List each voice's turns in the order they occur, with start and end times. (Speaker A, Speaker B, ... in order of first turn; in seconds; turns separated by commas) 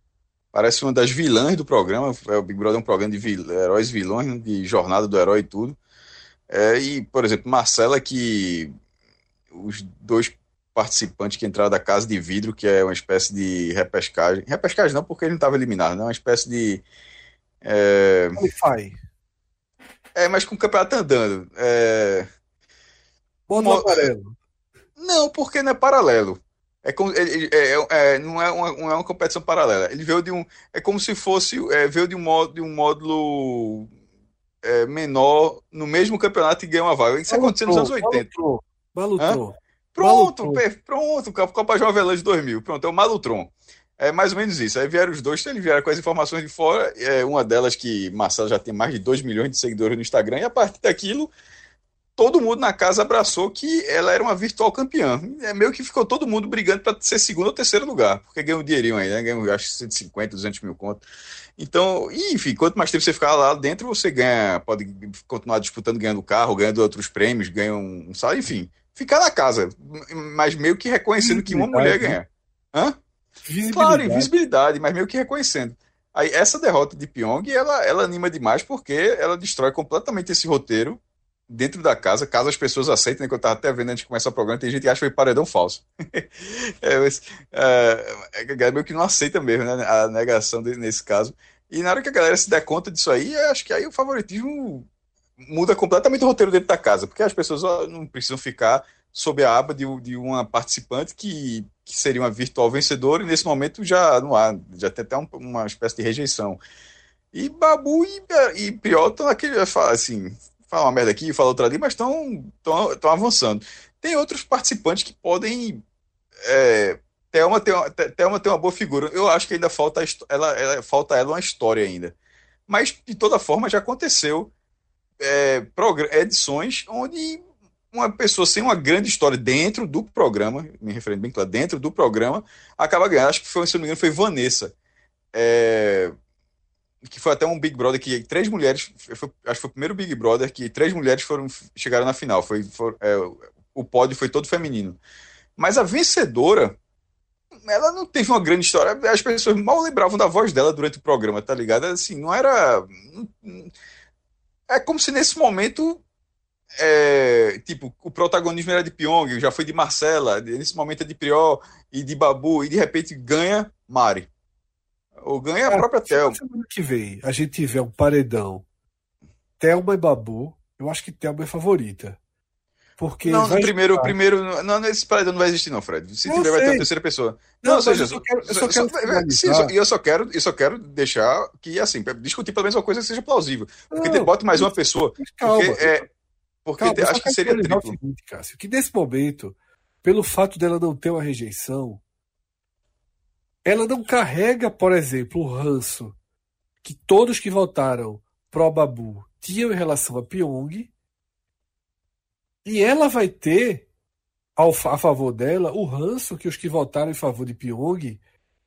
Speaker A: 0.5-5.8, Speaker A: 6.5-8.7, Speaker A: 9.5-16.8, Speaker A: 17.6-18.4, Speaker B: 18.4-18.9, Speaker A: 20.1-22.3, Speaker B: 23.5-24.3, Speaker A: 23.5-24.1, Speaker A: 25.0-33.9, Speaker A: 34.6-38.3, Speaker B: 37.3-40.6, Speaker A: 39.9-51.3, Speaker A: 52.2-61.0, Speaker A: 61.6-73.0, Speaker B: 71.2-72.2, Speaker B: 73.5-74.3, Speaker A: 73.7-94.9, Speaker A: 95.4-106.6, Speaker A: 107.3-115.8, Speaker A: 116.4-122.1, Speaker A: 122.7-124.5, Speaker A: 125.2-127.4, Speaker A: 127.9-134.7, Speaker A: 135.3-136.1, Speaker A: 137.0-145.0, Speaker A: 145.6-146.7, Speaker A: 147.6-153.7, Speaker A: 154.7-156.0, Speaker A: 156.8-164.3, Speaker A: 165.2-166.4, Speaker B: 165.7-168.6, Speaker B: 169.6-172.2, Speaker B: 173.0-174.1, Speaker A: 173.2-186.1, Speaker B: 176.2-176.9, Speaker B: 177.6-179.7, Speaker B: 183.9-186.1, Speaker A: 186.6-187.9, Speaker B: 186.8-192.0, Speaker B: 193.7-196.1, Speaker B: 196.8-200.9, Speaker B: 202.6-203.8, Speaker B: 204.6-208.2